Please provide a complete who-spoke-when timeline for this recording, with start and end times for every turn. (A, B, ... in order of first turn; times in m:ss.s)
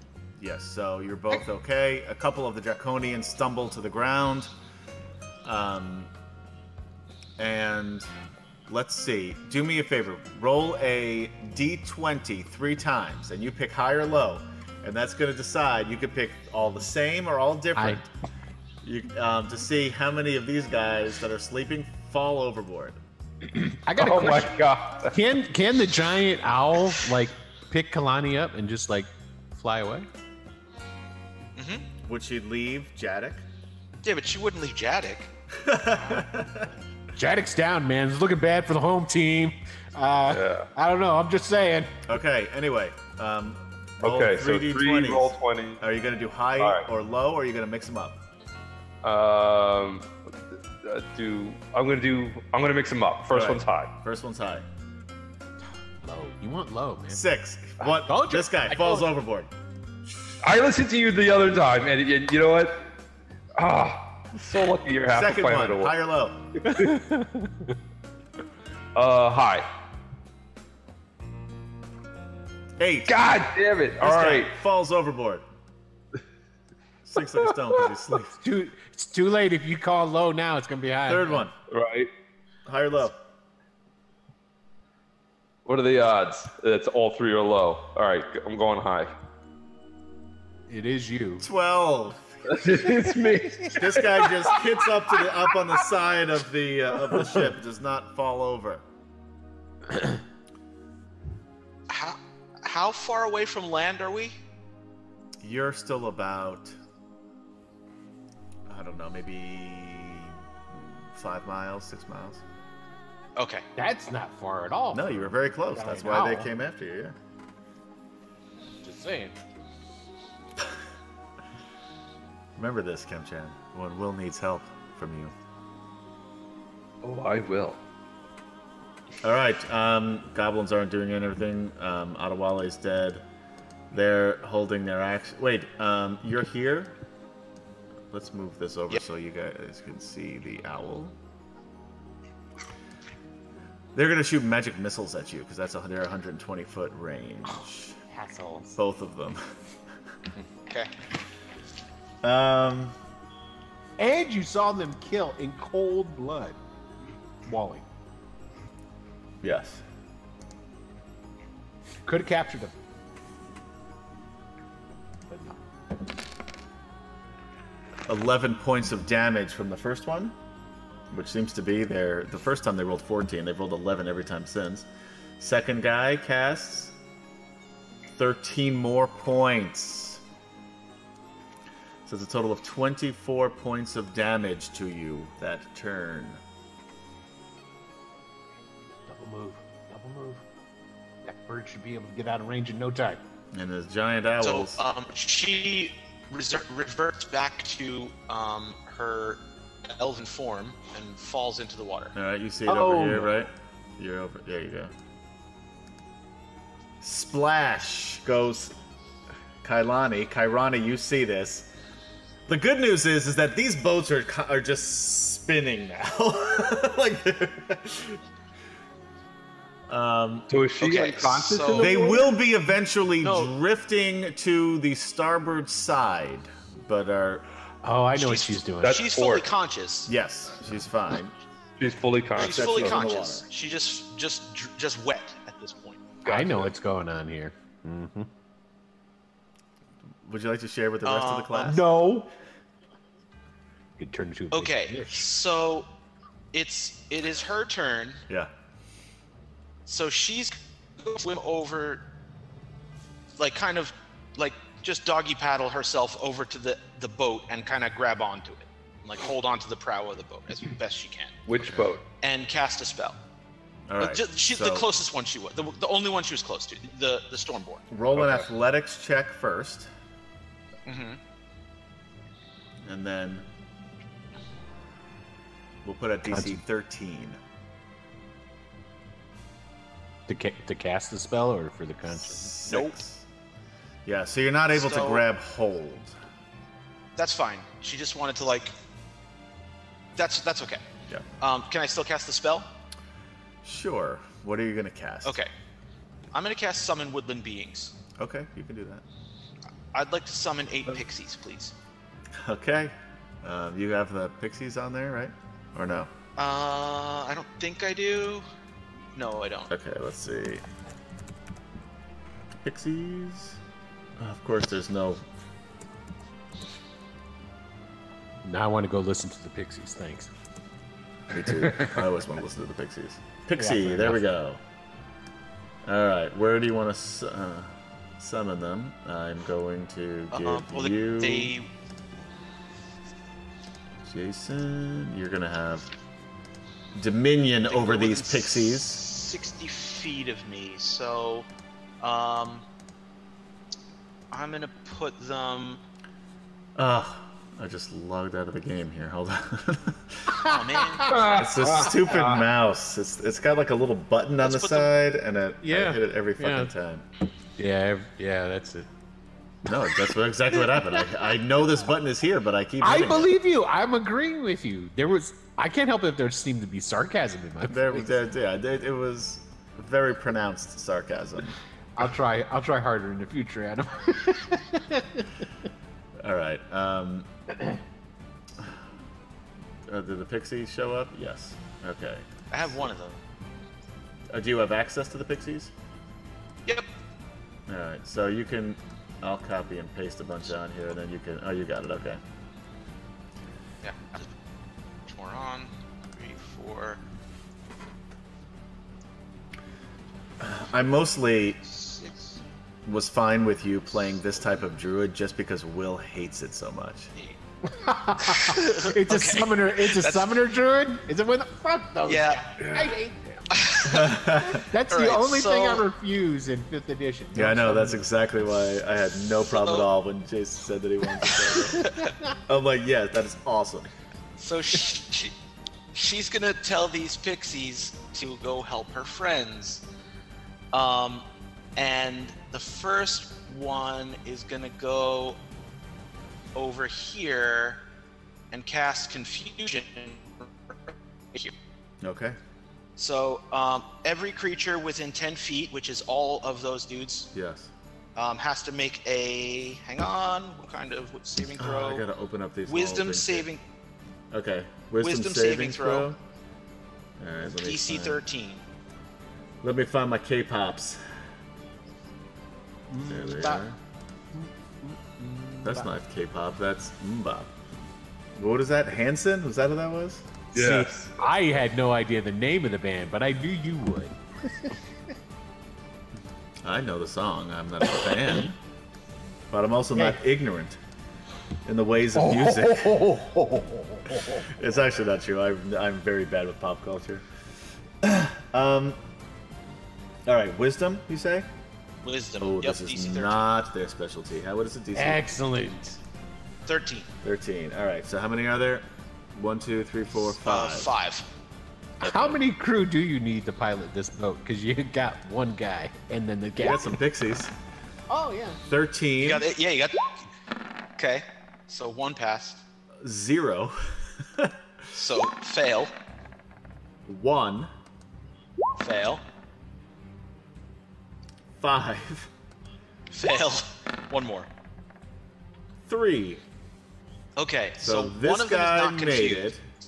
0:00.4-0:04.5 A
0:05.4-0:06.1 A
0:07.4-0:08.1 A
0:08.7-0:18.1 A
0:17.8-0:18.0 B
0:18.8-0:23.0 A
0:23.5-0:30.1 B
0:24.0-0:25.1 C
0:31.6-0:31.8 D
0:32.0-0:33.4 A
0:34.0-0:35.3 D
0:35.6-0:36.7 A
0:37.1-0:41.9 B
0:40.3-0:40.7 C
0:42.0-0:48.2 A
0:44.0-0:45.8 C
0:46.6-0:46.8 C
0:49.0-0:50.1 C
0:50.8-0:53.9 C
0:53.3-0:54.6 A
0:56.0-0:57.2 B
0:57.1-0:59.5 A
0:58.1-0:59.1 B
1:00.4-1:02.9 C
1:03.6-1:05.9 C
1:05.1-1:06.4 A
1:06.6-1:06.9 C
1:06.7-1:07.5 B
1:08.9-1:09.7 C
1:12.8-1:13.2 A
1:13.1-1:14.5 C
1:14.0-1:15.4 A
1:17.0-1:18.4 A
1:18.4-1:21.5 B
1:21.0-1:21.5 A
1:21.7-1:22.1 C
1:22.6-1:23.2 A
1:25.6-1:29.1 C
1:30.7-1:31.5 B
1:31.4-1:32.5 A
1:32.4-1:34.7 C
1:33.7-1:38.8 A
1:41.9-1:44.4 D
1:45.4-1:46.8 A
1:48.7-1:52.4 A
1:53.4-1:53.6 D
1:53.8-1:56.5 B
1:54.9-1:57.1 A
1:58.8-1:59.4 B
2:02.6-2:05.3 A
2:07.0-2:07.8 C
2:09.2-2:13.2 A
2:13.9-2:17.0 A
2:18.1-2:21.2 A
2:23.9-2:28.0 A
2:28.1-2:28.8 B
2:28.8-2:29.4 A
2:32.2-2:32.9 A
2:34.0-2:36.6 B
2:37.4-2:37.8 B
2:39.4-2:39.8 A
2:42.0-2:42.7 B
2:45.3-2:45.6 B
2:48.1-2:50.3 A
2:51.1-2:54.9 A
2:55.4-2:56.9 A
2:58.2-3:00.2 A
3:02.0-3:06.4 A
3:09.1-3:10.4 B
3:11.2-3:13.2 B
3:13.5-3:14.8 A
3:14.4-3:22.1 D
3:22.1-3:24.9 A
3:22.6-3:23.3 B
3:27.0-3:28.7 A
3:29.6-3:31.7 A
3:32.5-3:38.2 A
3:39.9-3:40.5 A
3:40.5-3:42.3 C
3:40.8-3:42.0 D
3:41.8-3:47.4 A
3:43.2-3:43.5 D
3:47.8-3:49.0 B
3:48.1-3:50.1 D
3:48.8-3:49.5 C
3:50.1-3:51.3 A
3:51.8-3:53.0 C
3:52.4-3:53.4 A
3:52.4-3:56.0 D
3:56.2-3:56.7 C
3:56.2-3:58.3 B
4:00.2-4:01.8 A
4:01.0-4:01.7 D
4:01.6-4:02.3 B
4:04.0-4:05.2 B
4:04.5-4:05.9 D
4:06.5-4:08.2 D
4:09.8-4:12.0 D
4:13.4-4:21.4 D
4:21.5-4:22.0 C
4:21.6-4:21.9 A
4:22.2-4:23.2 D
4:23.9-4:24.9 A
4:24.0-4:27.8 D
4:27.9-4:29.9 A
4:28.1-4:28.4 C
4:30.8-4:31.2 D
4:32.8-4:33.4 A
4:35.8-4:37.4 A
4:36.3-4:36.6 B
4:40.3-4:42.5 B
4:42.1-4:43.2 A
4:42.6-4:42.9 D
4:44.0-4:46.1 A
4:44.7-4:45.2 D
4:47.2-4:48.7 D
4:50.1-4:50.8 D
4:51.4-4:52.7 D
4:53.6-4:55.4 A
4:55.2-4:55.5 D
4:56.3-4:57.9 D
4:58.2-4:59.0 A
4:59.9-5:01.7 D
5:02.4-5:06.1 A
5:06.4-5:08.4 D
5:09.1-5:09.7 D
5:09.7-5:10.6 A
5:12.6-5:13.6 A
5:14.2-5:15.2 A
5:18.4-5:20.3 B
5:21.3-5:24.6 A
5:23.6-5:24.2 B
5:25.8-5:31.5 A
5:30.3-5:31.7 D
5:34.0-5:35.9 A
5:36.9-5:39.0 A
5:37.7-5:41.5 D
5:42.0-5:42.6 D
5:44.3-5:45.8 D
5:46.8-5:50.4 A
5:50.3-5:51.3 B
5:50.4-5:51.2 D
5:51.1-5:52.4 C
5:51.2-5:57.0 A
5:54.4-5:54.9 D
5:55.6-5:56.7 B
5:57.6-5:58.9 B
5:59.6-6:03.3 A
6:02.8-6:08.2 B
6:07.7-6:11.6 A
6:12.0-6:15.3 B
6:16.2-6:17.3 A
6:19.9-6:22.9 A
6:22.5-6:23.2 D
6:24.3-6:25.7 A
6:27.7-6:32.2 A
6:33.8-6:34.3 D
6:35.0-6:37.0 D
6:40.4-6:41.6 A
6:41.8-6:42.3 D
6:42.8-6:47.1 A
6:47.7-6:53.5 B
6:48.3-6:50.3 D
6:52.0-6:52.6 D
6:53.5-6:54.2 D
6:53.8-6:54.7 A
6:54.5-6:58.0 B
6:54.9-6:55.8 D
6:57.3-7:01.9 A
6:59.5-6:59.9 D
7:01.5-7:02.1 D
7:02.4-7:03.9 A
7:04.4-7:05.3 D
7:05.9-7:09.8 D
7:10.7-7:11.2 D
7:11.8-7:15.4 D
7:16.5-7:17.8 D
7:18.5-7:21.5 D
7:22.0-7:22.4 A
7:23.0-7:27.3 D
7:27.3-7:27.7 A
7:28.2-7:32.0 D
7:31.6-7:33.4 A
7:32.6-7:33.6 D
7:34.3-7:36.2 A
7:35.0-7:36.1 D
7:37.2-7:38.2 A
7:37.6-7:38.6 D
7:39.6-7:41.0 A
7:42.9-7:43.6 B
7:43.1-7:43.8 A
7:44.4-7:45.8 B
7:45.6-7:47.5 A
7:48.4-7:51.1 A
7:50.5-7:50.9 C
7:51.2-7:54.7 B
7:56.6-7:58.6 A
7:59.5-8:00.8 A
8:01.6-8:03.1 A
8:02.1-8:04.5 B
8:04.4-8:07.2 A
8:08.0-8:09.0 A
8:10.3-8:11.5 A
8:12.0-8:13.4 D
8:12.4-8:15.3 A
8:14.9-8:16.0 B
8:16.6-8:17.1 D
8:17.2-8:20.9 A
8:20.3-8:21.3 D
8:22.0-8:22.4 A
8:22.0-8:26.9 B
8:26.6-8:27.5 A
8:28.1-8:28.6 B
8:28.7-8:29.5 A
8:29.2-8:30.1 D
8:31.0-8:32.6 D
8:33.0-8:34.5 A
8:34.9-8:35.9 D
8:37.1-8:37.7 A
8:38.8-8:39.2 D
8:41.6-8:42.3 A
8:43.1-8:44.5 D
8:45.8-8:46.4 A
8:47.4-8:49.5 D
8:47.8-8:49.6 A